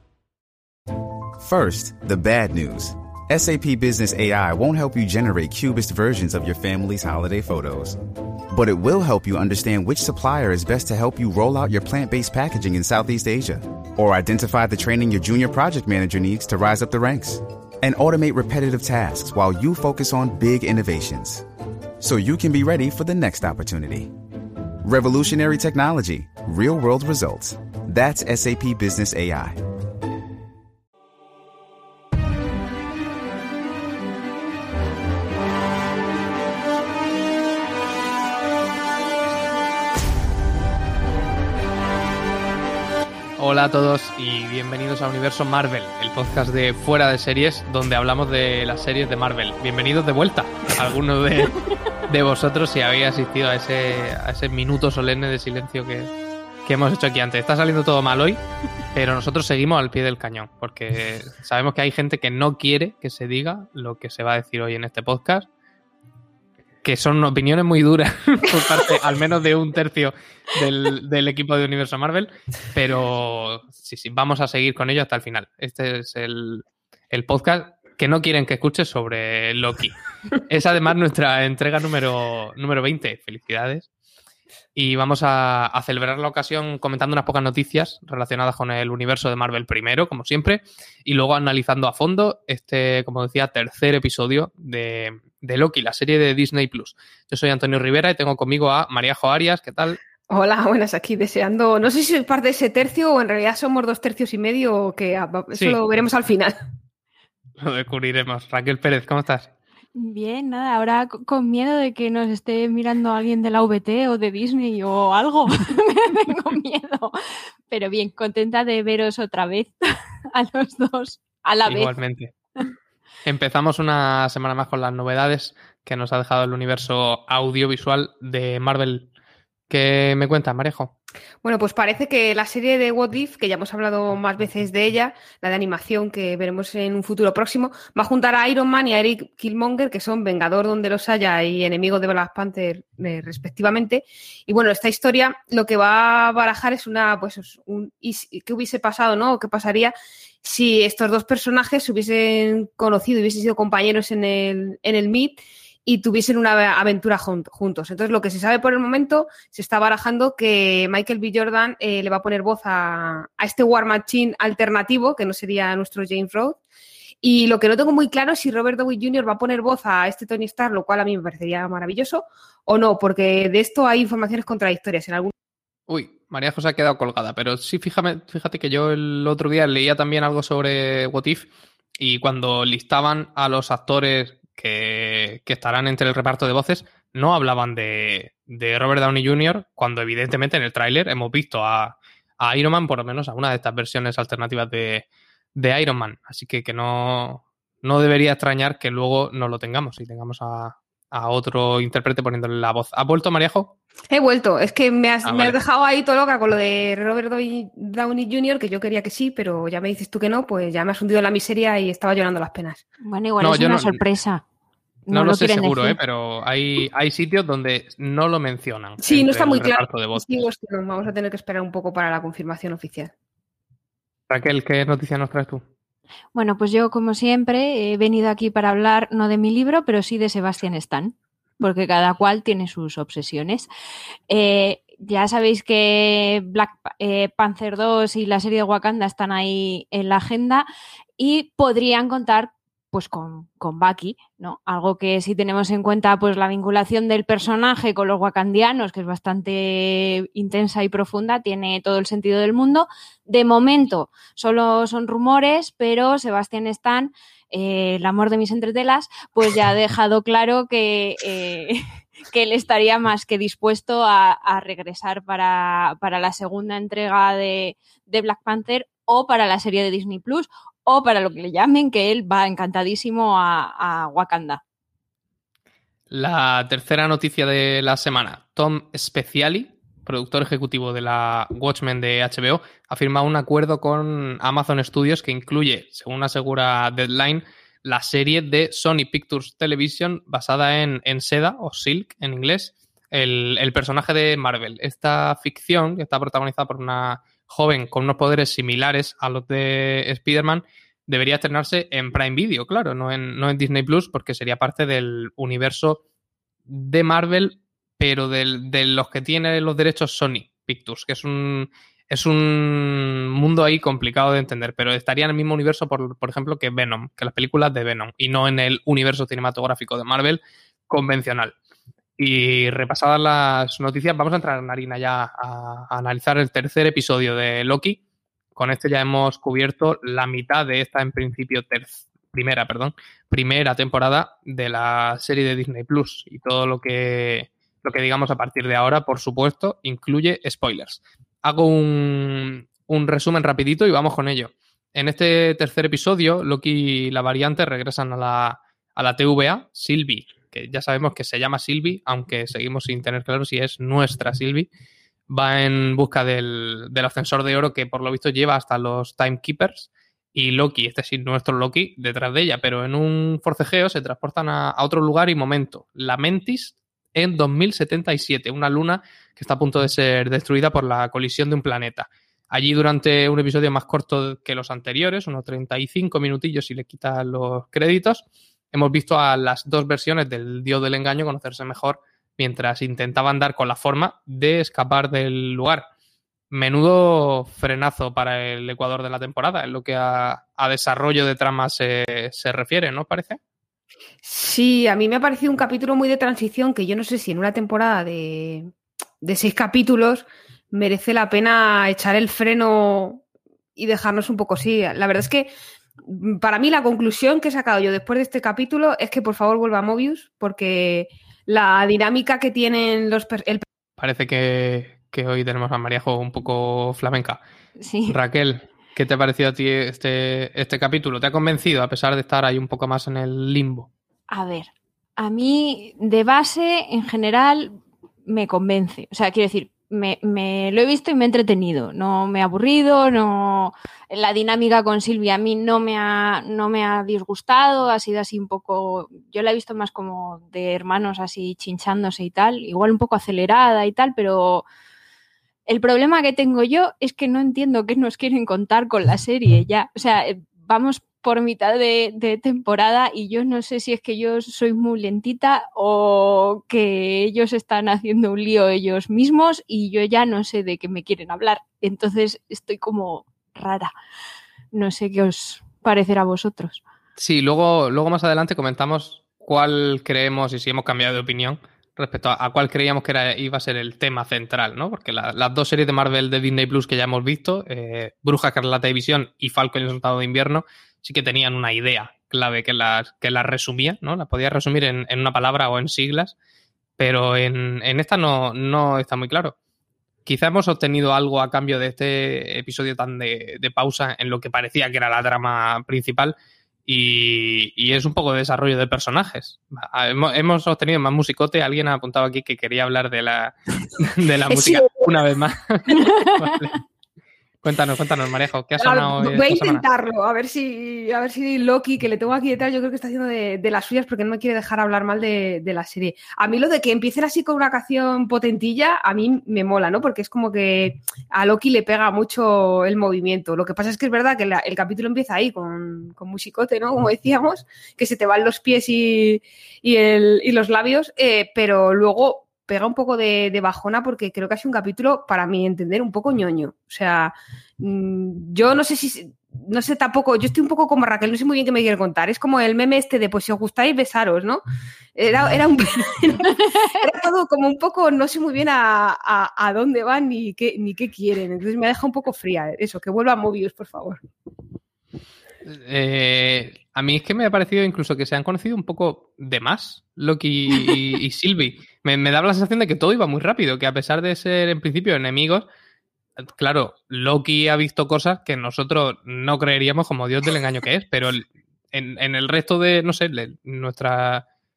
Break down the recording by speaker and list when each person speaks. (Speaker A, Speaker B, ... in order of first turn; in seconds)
Speaker A: 1.4-8.0, 8.5-21.5, 22.0-24.1, 24.8-29.6
Speaker B: 43.4-51.6, 52.1-56.1, 56.7-58.4, 58.9-65.5, 66.8-83.9, 84.8-100.0, 105.5-105.8, 107.6-109.5, 121.7-122.3, 123.2-129.1, 129.7-130.9, 175.9-203.7, 205.2-205.6, 213.4-214.0, 215.1-220.4, 224.3-225.6, 276.1-306.0, 306.7-321.5, 322.2-328.0, 328.6-354.7, 355.3-385.9, 386.5-393.4, 414.0-417.4, 418.1-423.9, 467.2-486.4, 487.0-489.6, 490.3-496.4, 496.9-506.8, 507.6-509.9, 555.7-565.7, 566.6-574.5
Speaker C: 100.3-106.5, 131.4-166.6, 167.2-175.3, 204.1-212.8, 219.0-223.1, 394.2-398.7, 399.2-403.2, 403.8-405.5, 406.1-413.6, 504.5-505.1, 508.8-544.6, 545.2-554.2
Speaker D: 110.0-117.2, 117.7-119.7, 120.3-122.0, 213.0-214.4, 215.1-216.0, 226.3-233.7, 234.3-240.7, 241.2-274.6, 417.8-418.2, 424.3-444.6, 445.7-463.9, 464.7-466.8, 505.9-506.5, 546.6-547.1